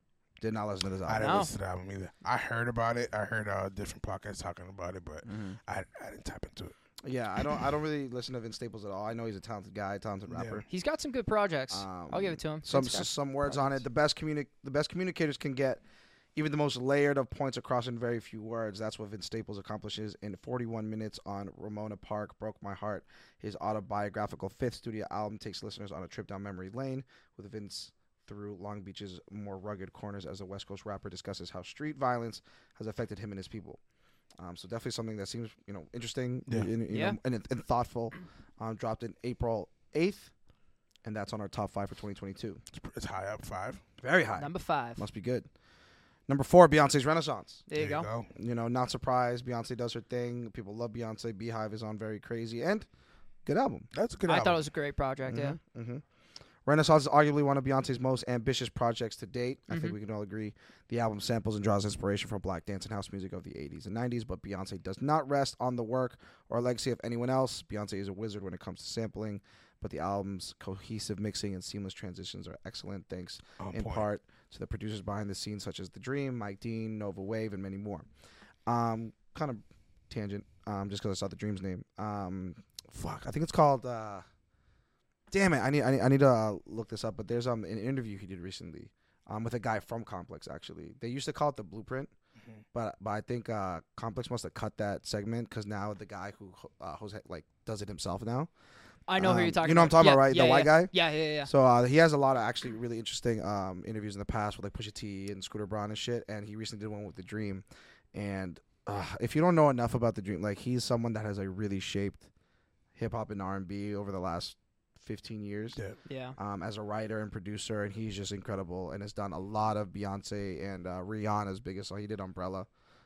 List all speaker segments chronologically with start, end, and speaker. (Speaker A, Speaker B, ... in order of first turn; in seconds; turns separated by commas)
Speaker A: 0.4-1.4, Speaker B: 1.1-6.8, Speaker C: 1.2-1.5, Speaker A: 5.2-5.6, Speaker A: 7.0-10.7, Speaker B: 10.3-10.7, Speaker C: 10.7-13.8, Speaker A: 11.7-15.8, Speaker A: 16.4-33.8, Speaker A: 34.4-40.3, Speaker C: 36.9-37.2, Speaker A: 41.0-42.6, Speaker B: 42.7-43.8, Speaker A: 44.0-45.5, Speaker C: 44.4-45.0, Speaker A: 46.3-47.6, Speaker C: 47.7-48.1, Speaker B: 47.8-48.3, Speaker A: 48.4-52.9, Speaker A: 53.5-53.9, Speaker B: 53.9-54.6, Speaker C: 54.3-55.6, Speaker A: 55.3-56.0, Speaker A: 56.7-78.1, Speaker C: 59.7-60.0, Speaker B: 73.6-74.1, Speaker A: 78.7-84.2, Speaker A: 85.3-92.1, Speaker A: 92.7-98.5, Speaker C: 99.1-101.5, Speaker A: 99.2-100.9, Speaker A: 101.5-112.2, Speaker A: 113.0-115.8, Speaker C: 116.1-116.4, Speaker A: 116.4-122.7